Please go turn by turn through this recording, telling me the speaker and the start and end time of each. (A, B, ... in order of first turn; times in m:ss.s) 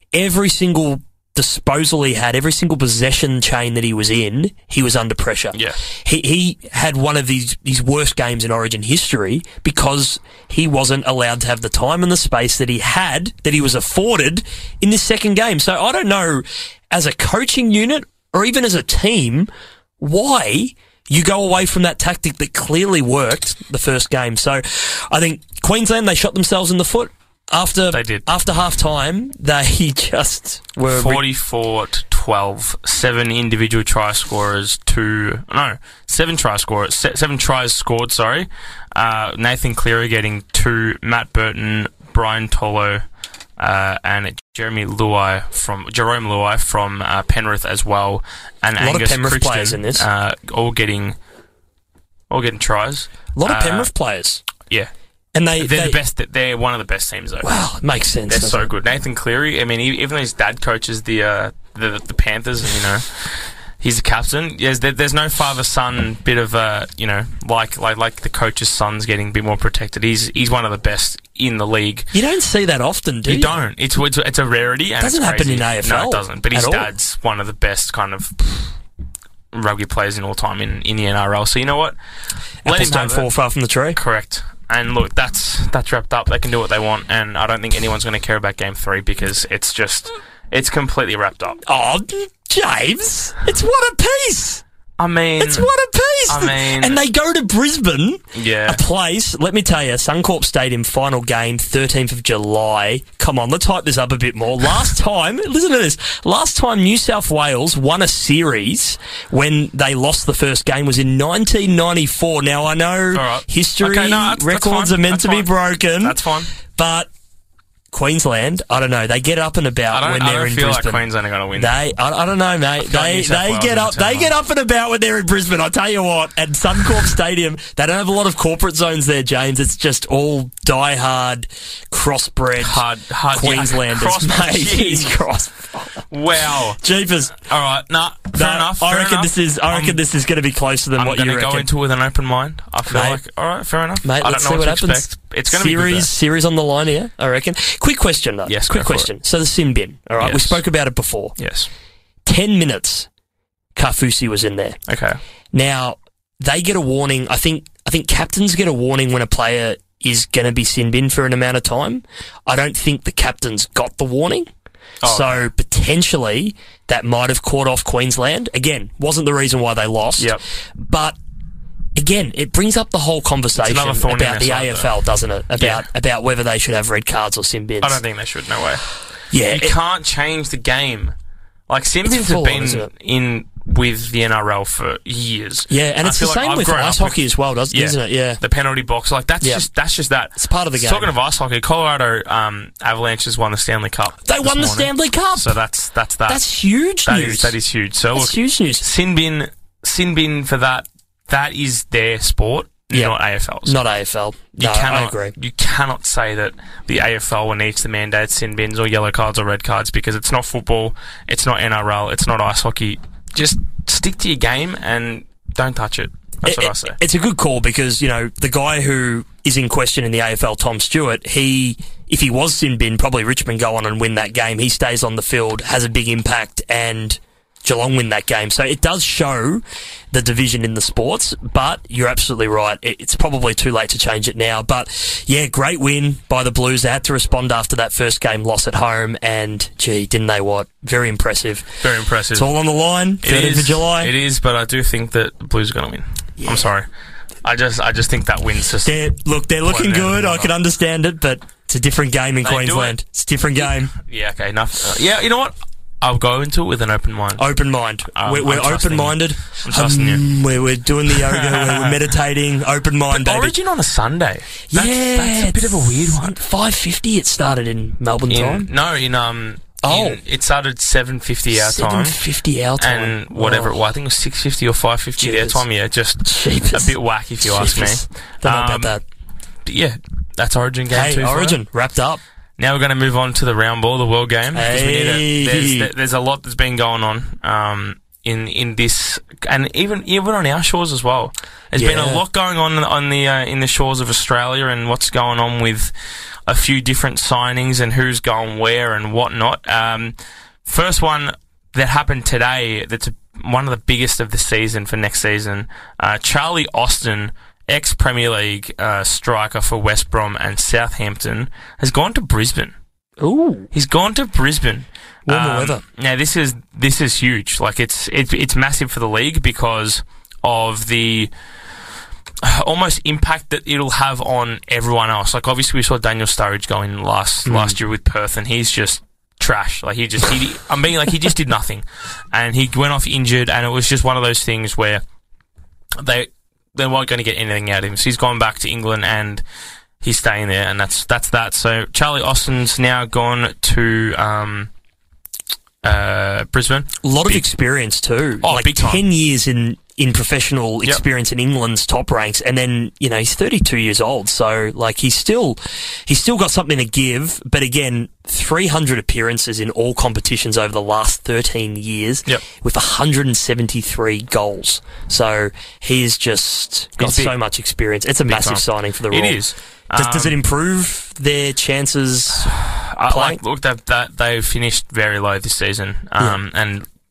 0:00.1-0:19.5 A
0:20.0-0:31.2 A
0:27.9-0:28.2 B
0:30.9-0:43.0 B
0:43.6-0:51.2 B
0:48.8-0:50.1 A
0:52.3-0:53.9 B
0:53.4-0:54.4 A
0:54.7-0:54.9 B
0:55.4-0:56.0 A
0:55.6-0:57.6 B
0:57.4-0:58.7 A
0:58.3-1:12.1 B
1:12.1-1:13.6 A
1:13.3-1:18.4 B
1:15.0-1:16.9 A
1:19.5-1:22.0 B
1:22.6-1:23.3 B
1:22.6-1:24.0 A
1:24.0-1:31.6 B
1:31.6-1:34.6 A
1:35.0-1:35.7 B
1:35.4-1:56.2 A
1:36.3-1:37.0 B
1:38.3-1:38.8 B
1:53.1-1:56.5 B
1:56.7-1:57.1 A
1:57.9-2:01.0 A
1:59.9-2:01.8 B
2:01.6-2:16.0 A
2:02.8-2:04.3 B
2:12.6-2:15.2 B
2:16.1-2:16.8 B
2:16.8-2:17.4 A
2:17.4-2:20.0 B
2:18.3-2:21.7 A
2:21.0-2:26.1 B
2:22.9-2:23.2 A
2:24.0-2:31.4 A
2:28.5-2:29.1 B
2:30.2-2:30.6 B
2:31.4-2:31.7 B
2:32.2-2:33.1 A
2:33.8-2:34.8 A
2:34.9-2:35.2 B
2:35.5-2:44.5 A
2:45.0-2:45.5 B
2:45.0-2:51.2 A
2:52.0-2:58.0 A
2:53.6-2:54.9 B
2:55.6-2:55.9 B
2:57.8-2:58.8 B
2:59.3-2:59.8 A
2:59.5-3:01.2 B
3:01.7-3:16.4 B
3:02.0-3:02.9 A
3:05.7-3:08.4 A
3:10.4-3:11.1 A
3:14.2-3:15.6 A
3:16.3-3:17.6 A
3:17.0-3:23.8 B
3:18.1-3:18.8 A
3:23.6-3:25.4 A
3:24.6-3:37.0 B
3:36.4-4:01.8 A
4:01.8-4:02.5 B
4:02.3-4:04.1 A
4:03.2-4:06.9 B
4:06.4-4:06.7 A
4:07.4-4:09.0 B
4:08.8-4:13.9 A
4:09.6-4:10.5 B
4:12.4-4:13.0 B
4:13.9-4:17.4 B
4:17.4-4:23.6 A
4:18.2-4:20.2 B
4:21.1-4:22.0 B
4:23.1-4:26.4 B
4:24.7-4:28.7 A
4:28.3-4:32.2 B
4:29.8-4:30.2 A
4:31.5-4:33.8 A
4:32.8-4:39.0 B
4:35.2-4:35.6 A
4:36.2-4:39.0 A
4:39.6-4:41.6 B
4:40.9-4:42.2 A
4:42.6-4:55.9 B
4:44.5-4:45.9 A
4:51.8-4:52.2 A
4:56.5-5:12.7 B
5:13.2-5:13.7 A
5:13.7-5:21.3 B
5:15.3-5:15.8 A
5:22.4-5:35.0 B
5:27.5-5:27.8 A
5:36.0-5:39.4 B
5:40.0-5:44.7 B
5:45.8-5:47.4 B
5:47.0-6:09.4 A
5:48.4-5:49.0 B
6:07.0-6:07.4 B
6:08.3-6:10.4 B
6:10.0-6:12.6 A
6:12.4-6:16.9 B
6:13.1-6:13.4 A